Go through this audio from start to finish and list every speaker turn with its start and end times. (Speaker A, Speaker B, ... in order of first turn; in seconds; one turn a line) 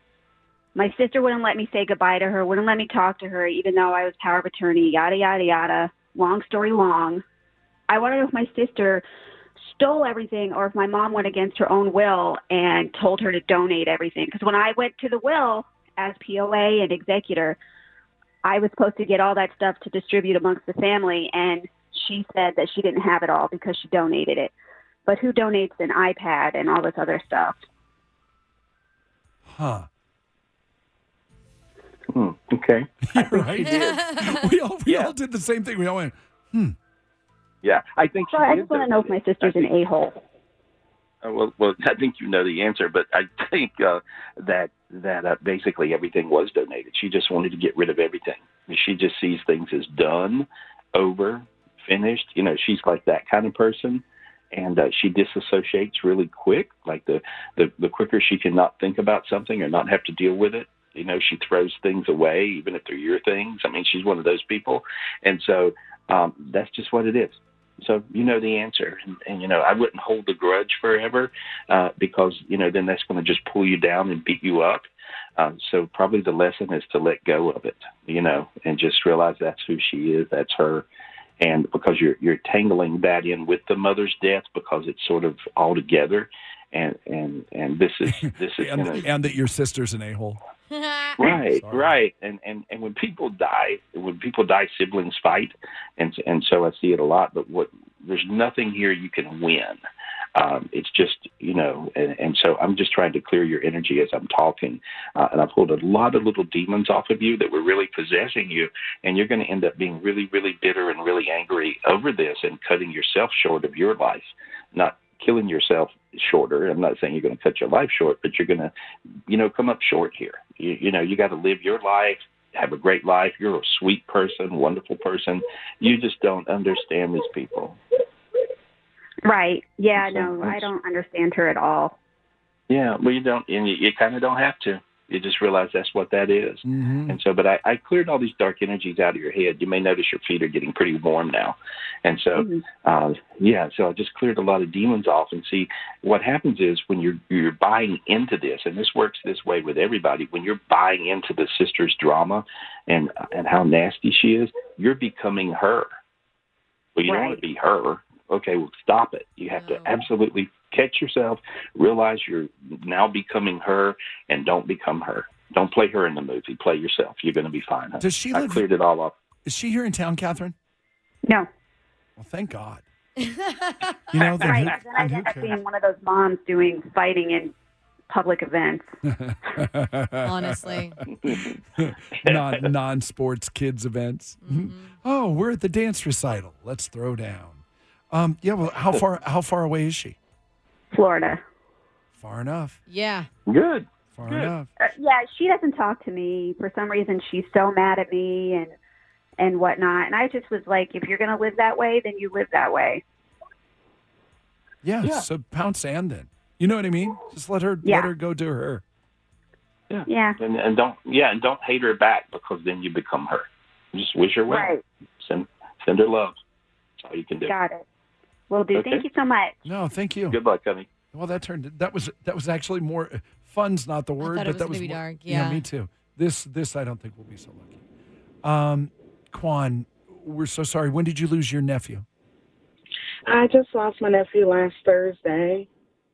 Speaker A: 0.8-7.2
Speaker A: 7.9-9.0
Speaker A: 9.6-17.6
Speaker A: 18.4-24.5
Speaker A: 25.1-27.6
Speaker B: 29.5-29.9
Speaker C: 32.1-34.0
Speaker B: 33.1-36.8
Speaker D: 33.8-34.5
Speaker C: 34.9-35.1
Speaker C: 37.6-39.7
Speaker A: 38.3-40.2
Speaker C: 41.2-74.8
Speaker C: 75.4-80.9
Speaker C: 81.4-89.1
Speaker B: 88.1-90.4
Speaker D: 90.7-91.2
Speaker C: 91.2-99.8
Speaker B: 91.2-91.9
Speaker C: 100.3-118.7
Speaker C: 119.3-127.8
Speaker A: 129.2-132.0
Speaker C: 129.9-130.7
Speaker C: 132.7-155.9
Speaker B: 136.6-137.2
Speaker A: 142.3-142.6
Speaker C: 156.9-169.2
Speaker A: 157.1-157.4
Speaker B: 168.0-168.6
Speaker B: 169.4-170.5
Speaker B: 172.2-172.8
Speaker D: 173.2-173.7
Speaker B: 174.1-175.6
Speaker A: 174.2-177.5
Speaker A: 178.1-178.9
Speaker B: 179.1-190.2
Speaker D: 180.2-181.0
Speaker C: 181.1-181.6
Speaker D: 184.4-184.9
Speaker A: 190.9-191.4
Speaker B: 192.1-192.8
Speaker D: 192.9-193.3
Speaker C: 193.5-194.5
Speaker B: 194.1-194.7
Speaker A: 194.8-198.7
Speaker A: 199.4-203.0
Speaker B: 204.8-208.8
Speaker A: 207.8-208.1
Speaker C: 209.9-216.4
Speaker A: 210.1-210.4
Speaker A: 214.5-214.8
Speaker C: 217.0-217.5
Speaker A: 217.5-217.8
Speaker A: 218.5-219.6
Speaker C: 218.7-219.0
Speaker B: 219.6-220.4
Speaker C: 220.3-220.9
Speaker B: 221.1-227.8
Speaker D: 224.2-225.6
Speaker B: 228.4-232.1
Speaker E: 233.3-235.7